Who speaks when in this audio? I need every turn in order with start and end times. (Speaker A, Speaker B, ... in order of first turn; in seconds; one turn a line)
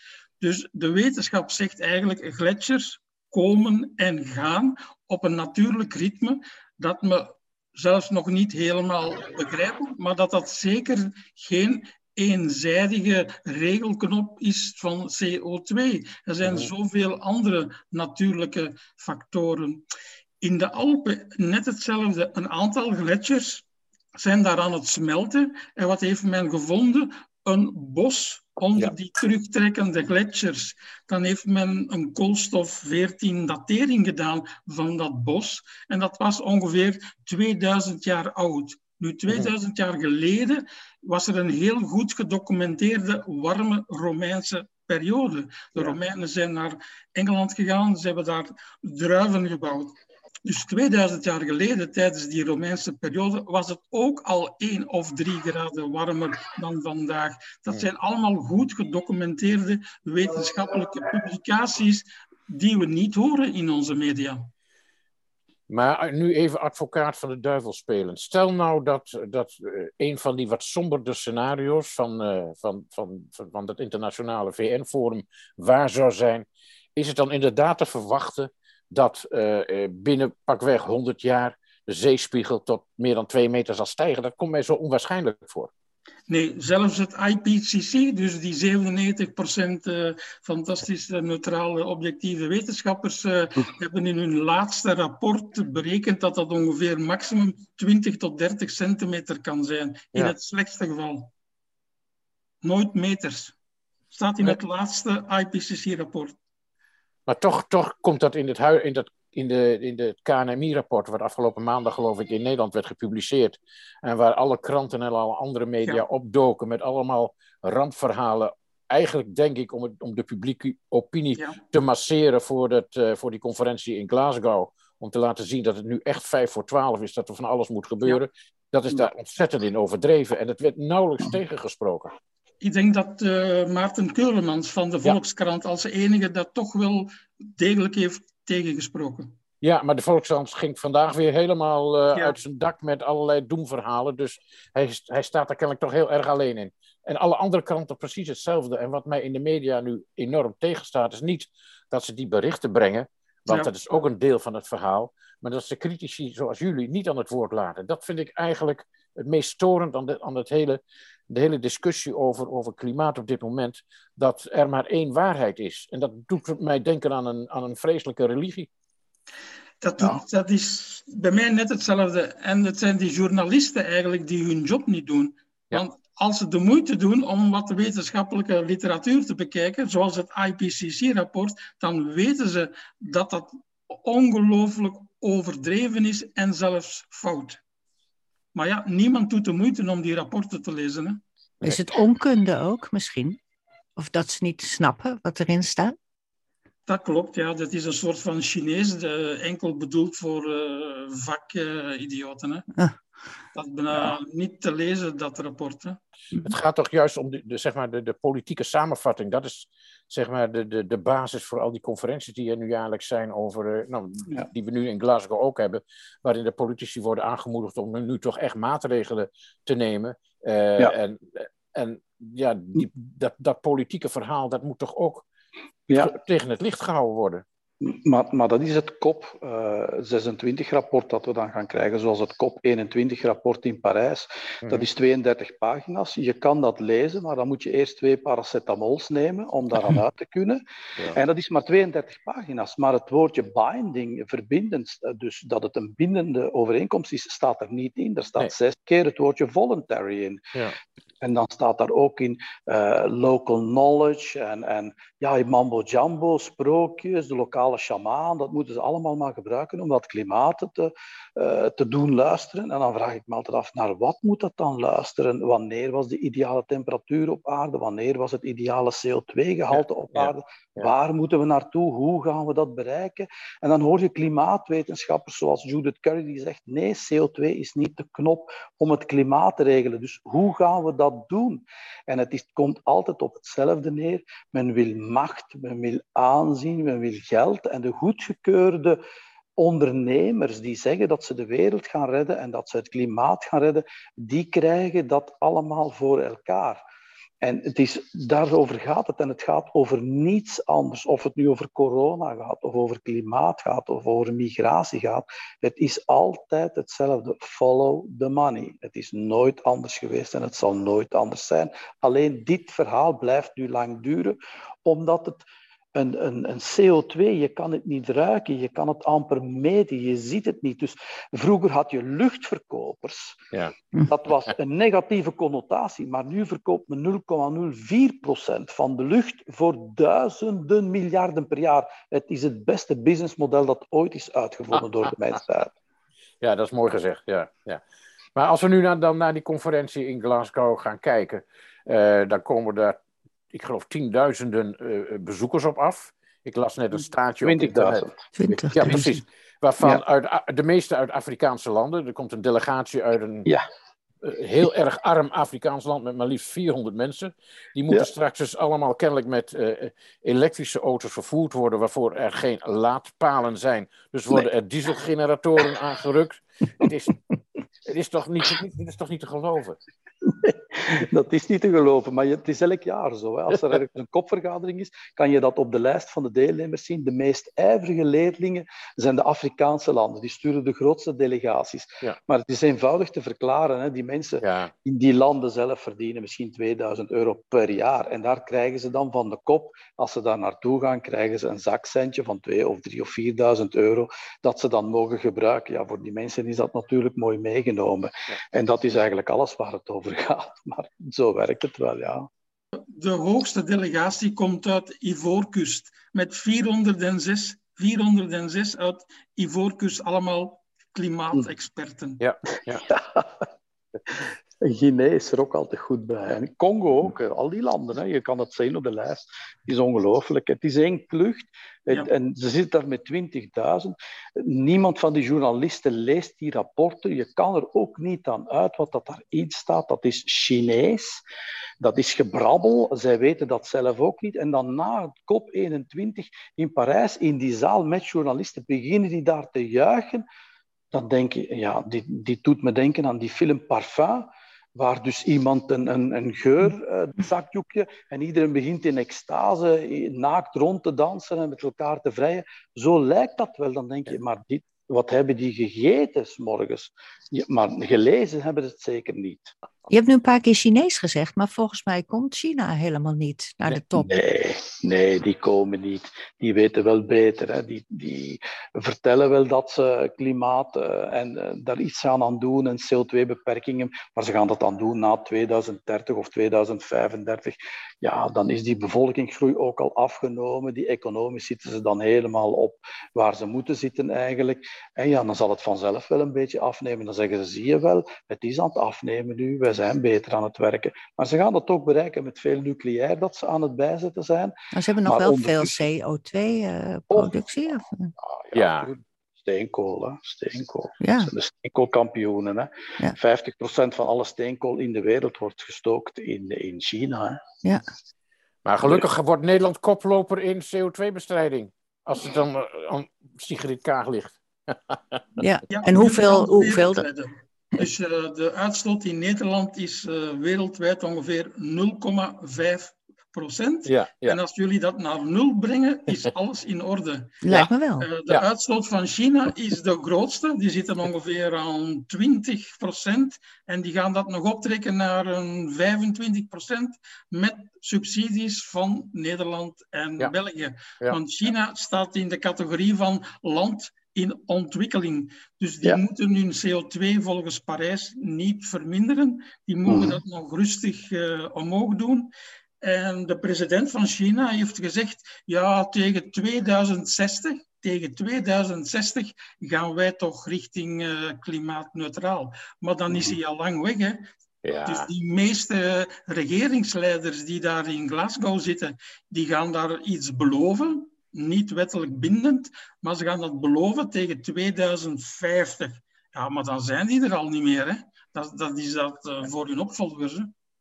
Speaker A: 0.4-19.8
Speaker B: 16.4-16.7
Speaker A: 20.4-64.5
Speaker B: 65.7-85.7
Speaker A: 86.3-101.3
Speaker A: 102.6-103.5
Speaker A: 104.1-106.3
Speaker B: 107.3-132.1
Speaker A: 132.6-139.3
Speaker B: 139.6-168.7
Speaker A: 169.8-187.6
Speaker A: 188.5-191.2
Speaker C: 191.6-193.4
Speaker C: 194.0-196.0
Speaker A: 196.9-202.7
Speaker A: 203.5-206.0
Speaker B: 206.4-225.3
Speaker D: 225.9-226.1
Speaker B: 225.9-227.4
Speaker D: 227.8-250.4
Speaker D: 251.2-289.0
Speaker B: 269.7-270.9
Speaker D: 289.6-296.9
Speaker D: 297.4-323.4
Speaker D: 324.0-335.7
Speaker B: 336.4-337.8
Speaker B: 338.4-343.0
Speaker B: 343.5-348.1
Speaker D: 347.4-349.0
Speaker C: 348.4-349.2
Speaker B: 348.7-353.5
Speaker B: 354.2-367.1
Speaker B: 367.9-369.8
Speaker D: 370.2-402.3
Speaker B: 384.4-384.7
Speaker A: 402.9-412.2
Speaker B: 412.2-412.9
Speaker D: 412.7-413.5
Speaker D: 414.6-431.2
Speaker D: 431.8-440.2
Speaker D: 440.9-459.5
Speaker C: 459.9-464.1
Speaker D: 463.7-494.5
Speaker C: 494.7-498.1
Speaker D: 495.1-495.8
Speaker D: 498.4-507.4
Speaker B: 498.5-498.9
Speaker C: 501.0-501.3
Speaker B: 508.6-515.4
Speaker C: 515.4-517.0
Speaker A: 515.7-527.4
Speaker B: 523.9-524.4
Speaker C: 527.4-528.1
Speaker A: 528.0-552.3
Speaker D: 549.9-550.2
Speaker A: 552.8-564.3
Speaker D: 563.1-563.4
Speaker B: 564.6-565.1
Speaker A: 564.9-580.5